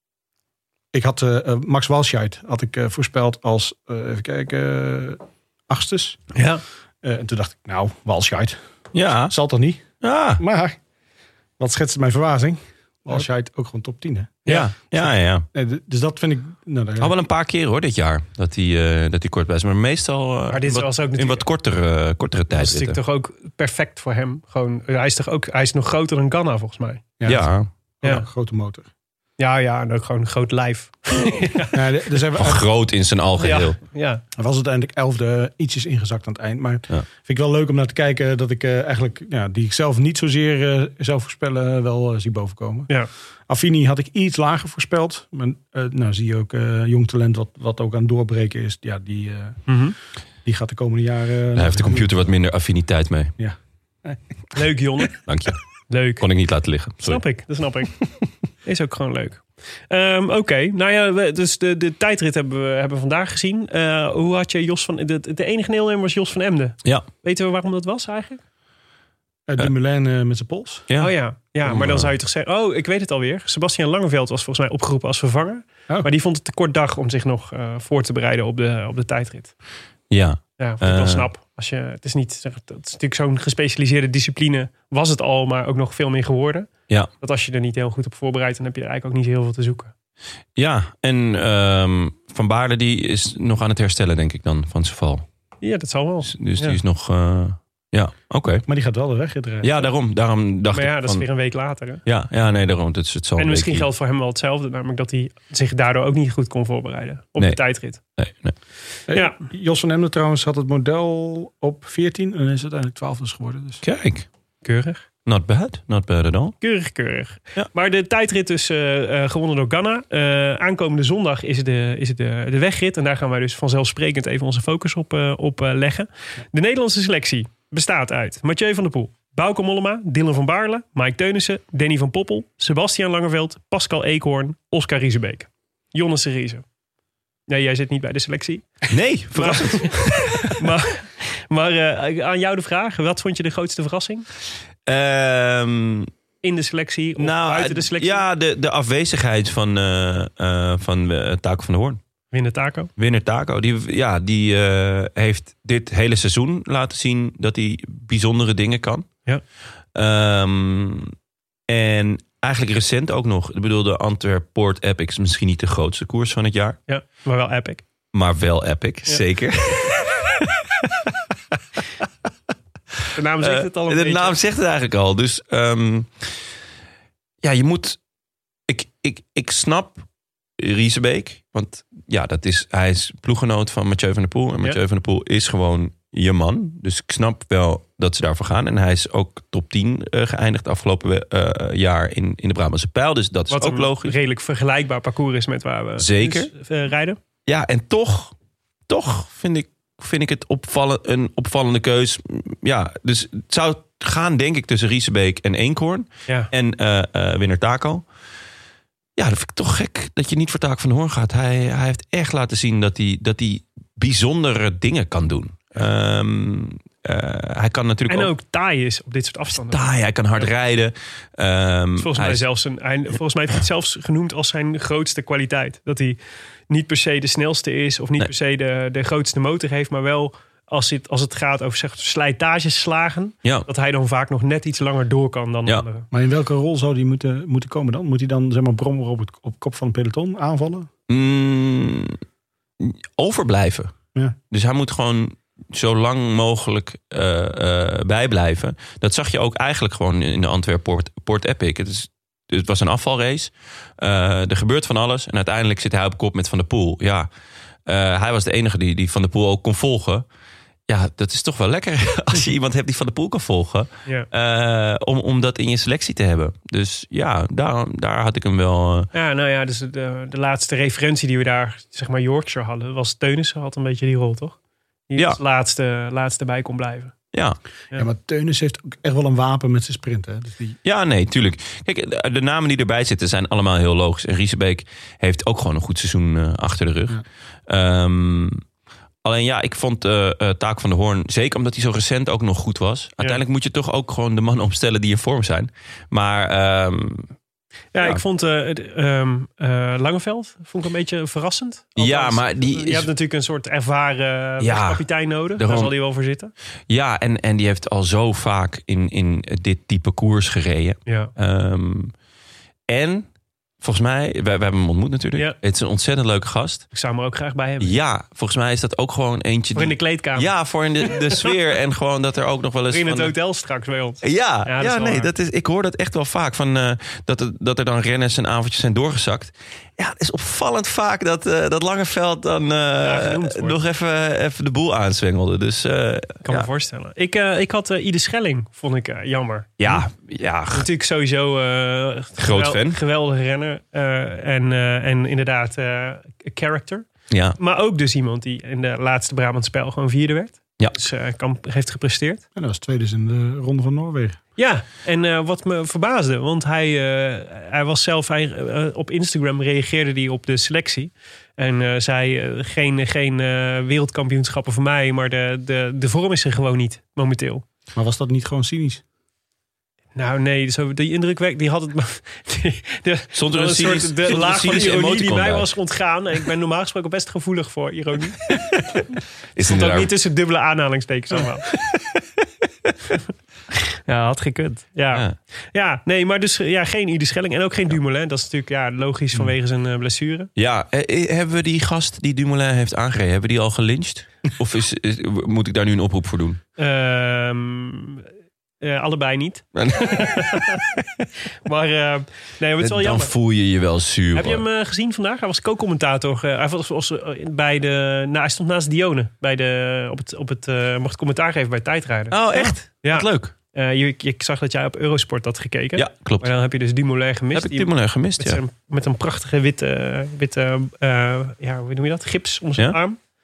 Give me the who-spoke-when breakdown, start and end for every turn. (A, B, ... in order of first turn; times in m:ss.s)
0:00.9-0:06.2 A
0:06.3-0:06.6 B
0:07.0-0:08.6 A
0:08.9-0:09.3 C
0:09.3-0:10.8 A
0:10.0-0:10.4 C
0:11.6-0:14.4 A
0:14.5-0:15.4 C
0:15.5-0:17.1 A
0:17.0-0:23.0 C
0:20.5-0:21.4 B
0:22.5-0:27.0 B
0:27.2-0:27.5 A
0:27.2-0:27.7 C
0:28.0-0:28.9 A
0:29.4-0:31.8 B
0:31.7-0:32.6 A
0:32.4-0:33.8 C
0:33.4-0:34.2 B
0:34.4-0:42.9 A
0:43.5-0:49.6 A
0:49.7-0:49.9 B
0:50.4-0:52.3 A
0:51.5-0:53.3 C
0:53.4-0:54.2 A
0:54.5-0:55.2 B
0:55.2-0:55.6 C
0:55.9-0:56.2 B
0:56.2-0:57.2 C
0:57.0-0:58.0 B
0:58.6-1:08.4 B
1:09.5-1:10.9 A
1:11.0-1:19.5 B
1:11.6-1:12.1 C
1:20.1-1:21.2 C
1:20.6-1:26.7 B
1:27.2-1:29.9 B
1:30.6-1:35.2 C
1:35.6-1:36.8 B
1:36.2-1:38.6 C
1:38.6-1:39.9 A
1:39.6-1:41.3 C
1:40.7-1:42.0 B
1:42.0-1:43.9 C
1:43.4-1:48.0 B
1:47.4-1:48.6 C
1:49.1-1:53.8 A
1:49.1-1:49.4 B
1:53.8-1:54.2 C
1:54.6-1:55.0 B
1:55.2-1:56.6 C
1:56.6-2:16.6 B
2:17.5-2:18.8 B
2:18.9-2:20.6 C
2:19.3-2:24.2 B
2:24.8-2:26.1 C
2:26.4-2:28.2 B
2:27.2-2:32.0 C
2:32.3-2:32.9 B
2:33.0-2:39.1 C
2:39.9-2:41.1 C
2:41.7-2:46.8 C
2:46.9-2:47.8 B
2:48.1-2:50.9 C
2:53.1-2:54.3 B
2:53.4-2:56.3 C
2:57.4-2:58.0 C
2:58.7-3:00.0 C
3:00.6-3:14.2 C
3:13.5-3:17.2 B
3:16.0-3:16.5 C
3:17.4-3:18.3 C
3:18.9-3:28.0 C
3:29.2-3:38.3 C
3:38.1-3:40.5 B
3:39.5-3:42.4 C
3:42.0-3:46.2 B
3:46.7-3:56.1 B
3:56.1-4:00.9 A
4:01.1-4:02.2 C
4:02.8-4:03.9 C
4:04.5-4:17.3 C
4:17.8-4:20.2 C
4:20.9-4:29.1 C
4:29.1-4:34.6 B
4:35.1-4:37.1 B
4:37.3-4:37.6 C
4:37.9-4:40.8 A
4:40.8-4:48.6 C
4:49.2-4:57.3 C
4:57.9-5:06.5 B
5:02.0-5:03.1 C
5:04.6-5:05.0 C
5:05.6-5:05.9 C
5:06.9-5:12.1 C
5:12.9-5:13.3 C
5:13.8-5:16.9 C
5:16.9-5:18.0 B
5:17.8-5:23.3 C
5:19.7-5:20.5 B
5:21.0-5:21.5 B
5:22.9-5:25.3 B
5:24.2-5:36.7 C
5:33.0-5:33.8 B
5:36.4-5:40.0 B
5:39.8-5:40.9 C
5:40.7-5:52.4 B
5:42.4-5:43.0 C
5:47.3-5:47.6 C
5:52.5-5:54.4 A
5:54.6-6:07.6 B
6:07.9-6:09.0 A
6:10.2-6:18.6 B
6:13.3-6:15.7 C
6:19.6-6:20.1 C
6:19.6-6:21.7 B
6:24.0-6:30.5 B
6:30.6-6:36.6 C
6:36.8-6:38.3 B
6:38.8-6:40.8 B
6:39.7-6:41.0 C
6:41.6-6:43.3 B
6:42.8-6:44.6 C
6:44.3-7:03.2 B
6:52.3-6:53.5 C
6:56.0-6:56.5 C
6:57.5-6:58.6 C